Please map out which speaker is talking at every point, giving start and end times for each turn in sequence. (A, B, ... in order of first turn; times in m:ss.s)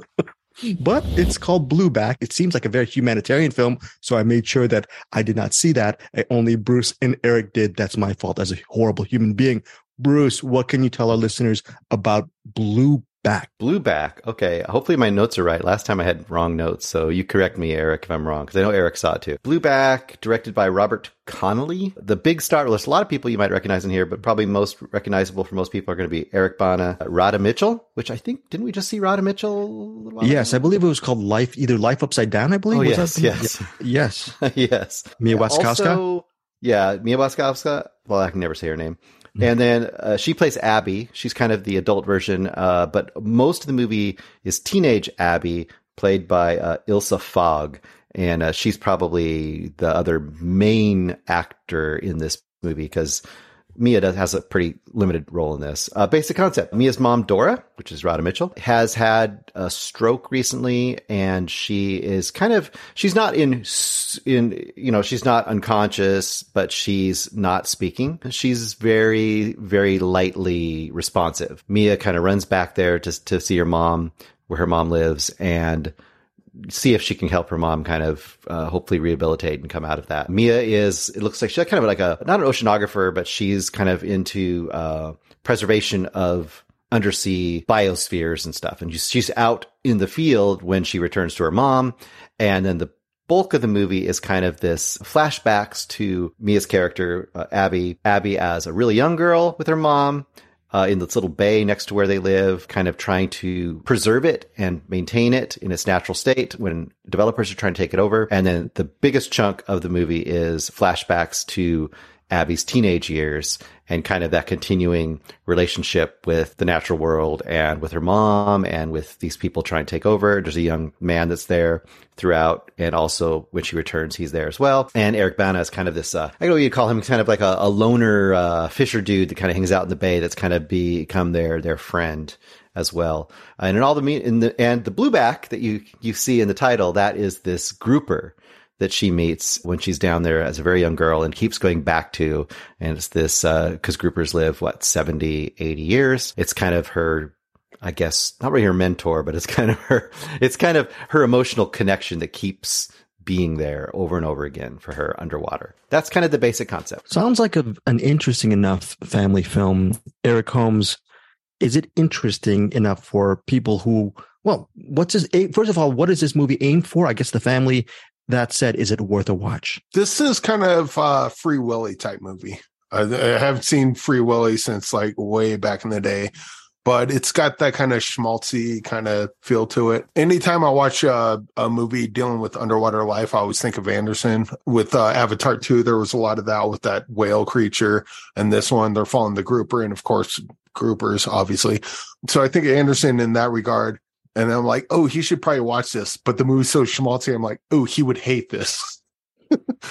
0:00.6-0:13.5 A
0:13.6-0:30.7 B
0:30.2-0:34.4 A
0:32.7-0:33.7 B
0:34.4-0:53.2 B
0:35.2-0:36.0 A
0:53.8-1:15.9 B
1:16.6-2:37.1 B
2:37.1-2:41.0 A
2:41.6-2:49.8 A
2:49.9-2:56.3 C
2:56.8-3:19.0 C